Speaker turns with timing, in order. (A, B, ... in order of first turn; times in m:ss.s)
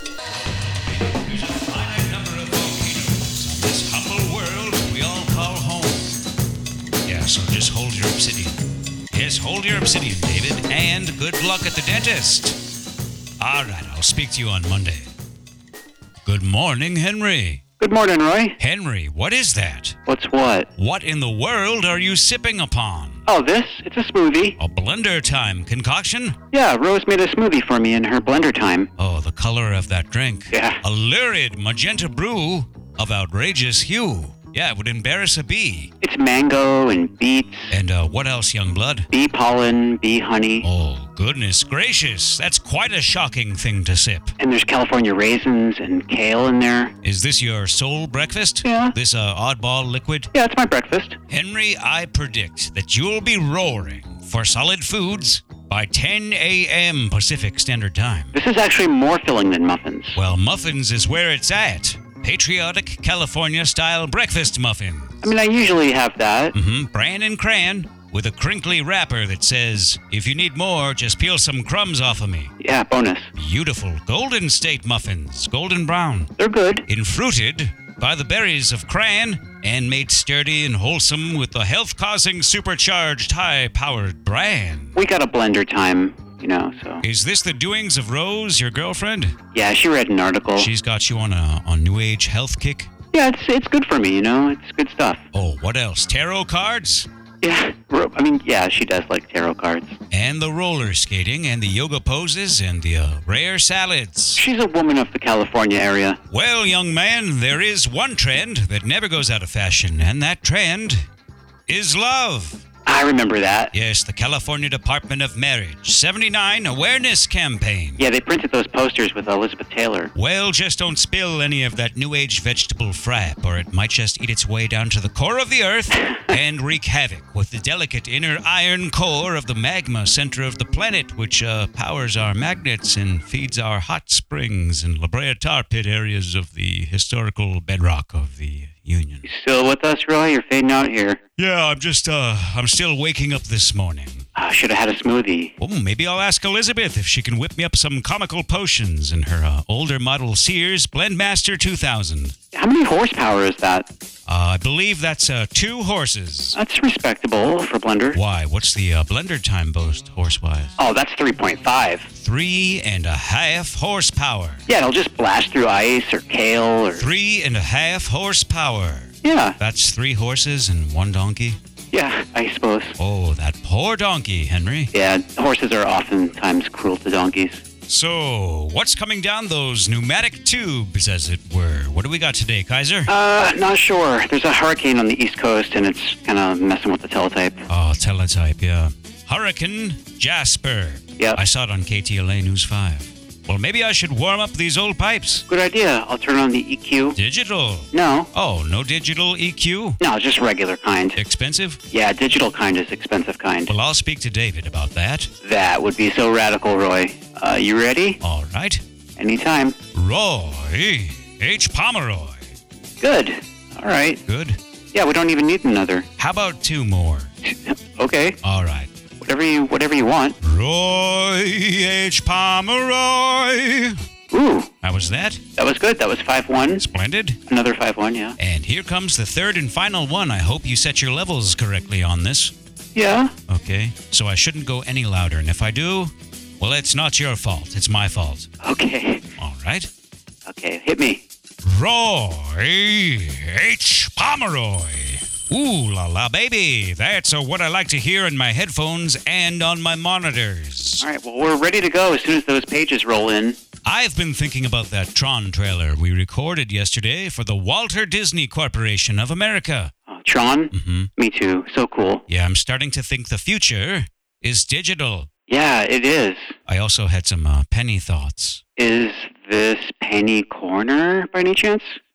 0:00.3-0:06.2 A
0:07.0-0:12.6 A
0:13.4-0:15.1 A
0:16.2-0:17.6 A
0:17.8-0:18.6 B
0:18.6-0:20.0 A
0:20.0-0:20.7 B
0:20.8-0:23.2 A
0:23.2-0:24.6 B
0:24.6-0:26.4 A
0:26.5-0:28.9 B
0:29.0-0:35.9 A
0:30.5-0:30.8 B
0:36.0-0:37.7 B
0:37.7-0:39.1 A
0:39.1-0:40.7 B
0:40.6-0:44.3 A
0:44.4-0:46.9 B
0:47.0-0:50.3 A
0:48.6-0:48.9 B
0:50.3-0:51.2 B
0:51.3-0:58.3 A
0:58.3-1:00.2 B
1:00.1-1:05.1 A
1:05.2-1:06.6 B
1:06.5-1:12.5 A
1:12.6-1:13.3 B
1:13.3-1:16.3 A
1:16.4-1:16.8 B
1:16.9-1:24.9 A
1:25.0-1:27.0 B
1:27.0-1:29.4 A
1:29.5-1:30.7 B
1:30.6-1:32.9 A
1:33.1-1:35.2 B
1:35.3-1:37.1 A
1:37.4-1:40.0 B
1:40.1-1:44.4 A
1:44.4-1:46.2 B
1:46.3-1:51.0 A
1:51.7-1:52.6 A
1:52.8-1:53.7 B
1:53.7-1:58.0 A
1:58.0-2:00.1 B
2:00.1-2:19.2 A
2:19.2-2:21.2 B
2:21.4-2:24.2 A
2:24.3-2:25.5 B
2:25.6-2:32.3 A
2:32.5-2:33.9 B
2:34.3-2:36.6 A
2:36.5-2:38.2 B
2:38.1-2:40.8 A
2:40.8-2:42.1 B
2:42.1-2:44.6 A
2:44.7-2:47.1 B
2:47.0-2:51.6 A
2:49.2-2:49.6 B
2:51.9-2:53.0 B
2:53.0-2:54.9 A
2:54.9-2:57.6 B
2:57.9-3:03.1 A
3:03.1-3:07.6 B
3:07.7-3:15.4 A
3:15.5-3:17.2 B
3:17.2-3:20.0 A
3:17.9-3:18.3 B
3:20.0-3:21.2 B
3:21.2-3:21.8 A
3:21.9-3:23.7 B
3:23.7-3:25.3 A
3:25.4-3:28.2 B
3:28.2-3:28.8 A
3:29.2-3:29.8 B
3:29.9-3:32.4 A
3:33.0-3:34.2 B
3:34.3-3:34.6 A
3:34.9-3:36.0 B
3:36.2-3:37.3 A
3:37.4-3:38.4 B
3:38.4-3:38.9 A
3:39.2-3:40.4 B
3:40.4-3:44.0 A
3:44.3-3:44.7 B
3:44.8-3:45.4 A
3:45.6-3:46.8 B
3:46.8-3:47.4 A
3:47.5-3:48.4 B
3:48.4-3:52.5 A
3:52.9-3:53.3 B
3:53.5-3:58.5 A
3:58.6-3:59.2 B
3:59.4-3:59.9 A
4:00.4-4:01.2 B
4:01.6-4:11.0 A
4:11.0-4:13.6 B
4:13.8-4:19.9 A
4:20.1-4:22.2 B
4:20.7-4:21.1 A
4:22.3-4:25.3 A
4:25.5-4:26.6 B
4:26.7-4:28.6 A
4:28.8-4:32.0 B